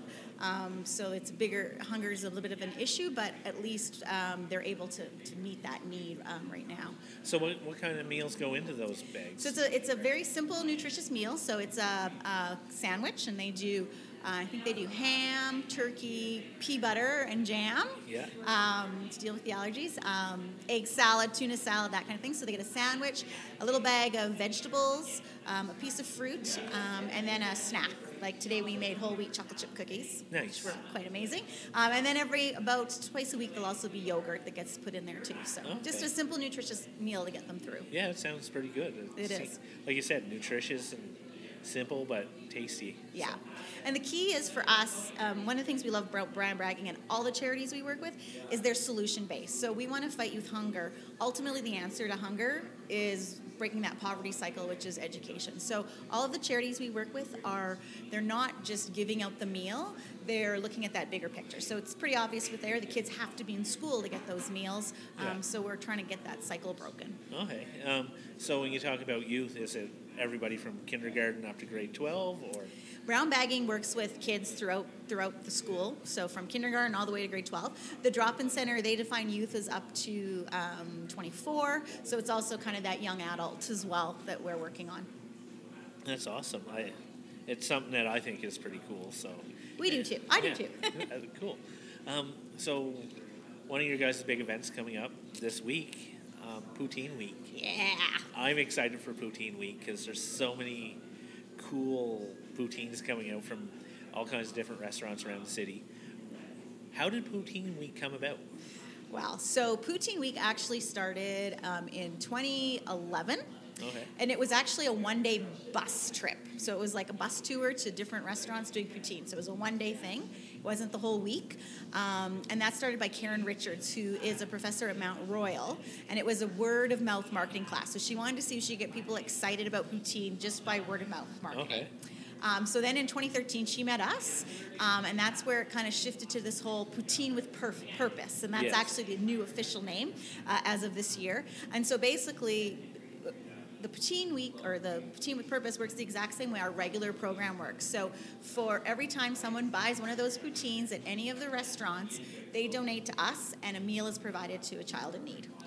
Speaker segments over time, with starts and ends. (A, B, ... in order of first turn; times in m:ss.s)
0:00.4-0:07.0 A
0:07.2-0:09.6 B
0:09.4-0:37.9 A
0:18.0-0:18.3 B
0:30.3-0:30.8 B
0:35.6-0:36.1 B
0:37.9-0:43.4 B
0:39.2-0:39.5 A
0:43.1-1:07.2 A
1:07.3-1:12.7 B
1:13.1-1:25.1 A
1:26.0-1:26.9 B
1:27.5-1:29.4 B
1:29.8-1:31.0 A
1:30.4-1:33.1 B
1:33.7-1:37.6 B
1:37.5-1:38.3 A
1:38.3-1:41.0 B
1:41.6-1:45.8 B
1:46.9-1:48.4 B
1:49.1-1:53.4 A
1:53.8-1:54.1 B
1:54.2-2:11.9 A
2:11.5-2:11.9 B
2:12.4-2:35.5 A
2:18.5-2:18.9 B